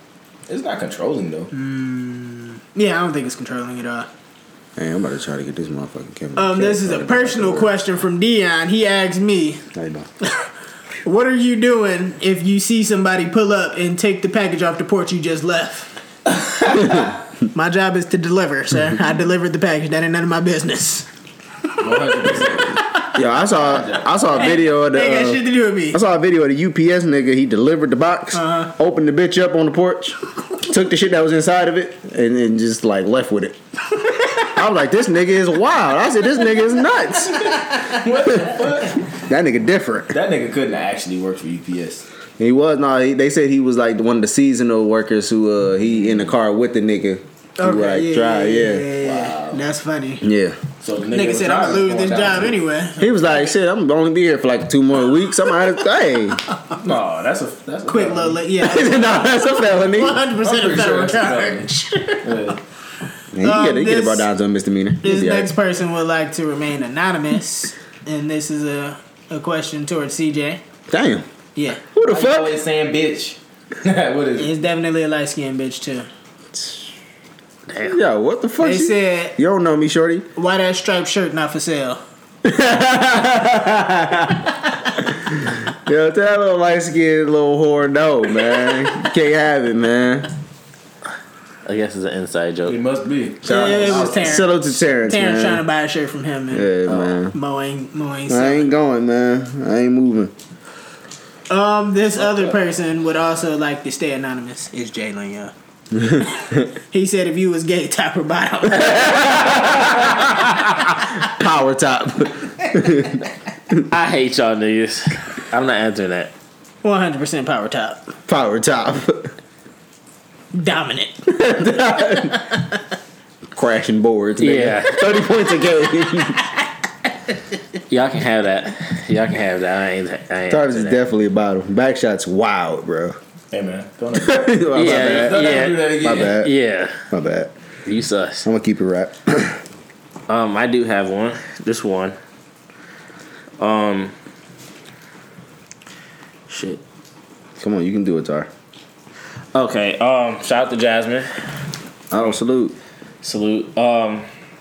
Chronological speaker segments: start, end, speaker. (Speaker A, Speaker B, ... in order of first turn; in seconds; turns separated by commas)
Speaker A: 0.5-1.5, Speaker B: 1.5-4.1, Speaker C: 4.8-7.8, Speaker B: 6.3-9.6, Speaker C: 9.7-10.1, Speaker B: 11.0-15.9, Speaker A: 16.4-17.1, Speaker B: 17.5-21.1, Speaker A: 21.8-22.8, Speaker B: 22.2-23.1, Speaker C: 23.1-33.6, Speaker A: 23.4-24.6, Speaker B: 24.4-26.0, Speaker B: 28.3-28.7, Speaker C: 34.4-37.6, Speaker B: 37.4-38.0, Speaker A: 37.8-39.1, Speaker C: 39.2-40.2, Speaker A: 40.1-42.0, Speaker C: 42.4-48.9, Speaker B: 47.6-50.2, Speaker A: 49.0-49.6, Speaker C: 50.2-50.6, Speaker A: 50.8-52.6, Speaker B: 51.1-53.5, Speaker C: 53.0-56.4, Speaker A: 56.7-58.4, Speaker B: 57.9-62.6, Speaker C: 58.6-60.2, Speaker A: 60.3-61.7, Speaker A: 62.2-62.6, Speaker C: 63.3-65.5, Speaker B: 63.4-64.3, Speaker B: 65.0-70.6, Speaker C: 70.9-71.3, Speaker B: 71.5-71.8, Speaker C: 71.9-72.6, Speaker A: 72.0-74.5, Speaker B: 74.4-76.1, Speaker C: 76.5-76.9, Speaker D: 77.7-78.0, Speaker C: 77.8-80.3, Speaker B: 78.6-79.3, Speaker B: 80.3-82.0, Speaker C: 82.4-90.3, Speaker D: 91.7-92.8, Speaker A: 92.7-94.4, Speaker C: 93.4-95.6, Speaker B: 93.5-96.7, Speaker C: 96.5-97.3, Speaker A: 96.9-97.2, Speaker B: 97.3-98.7, Speaker C: 98.3-100.3, Speaker B: 101.5-105.5, Speaker C: 105.9-106.6, Speaker B: 106.9-109.6, Speaker C: 108.8-110.2, Speaker C: 111.2-113.2, Speaker D: 113.9-116.3, Speaker B: 116.8-118.1, Speaker C: 118.3-119.3, Speaker B: 120.5-121.3, Speaker C: 121.3-122.5, Speaker C: 123.5-126.4, Speaker D: 124.4-125.1, Speaker D: 127.9-131.0, Speaker C: 130.5-133.2, Speaker A: 133.5-136.4, Speaker C: 134.2-136.5, Speaker D: 134.7-137.0, Speaker C: 137.1-137.5, Speaker D: 137.8-138.5, Speaker C: 138.4-139.6, Speaker D: 140.3-142.2, Speaker D: 143.6-144.1, Speaker D: 146.5-146.8, Speaker C: 147.6-148.5, Speaker D: 149.5-151.3, Speaker C: 152.1-152.7, Speaker D: 153.2-154.3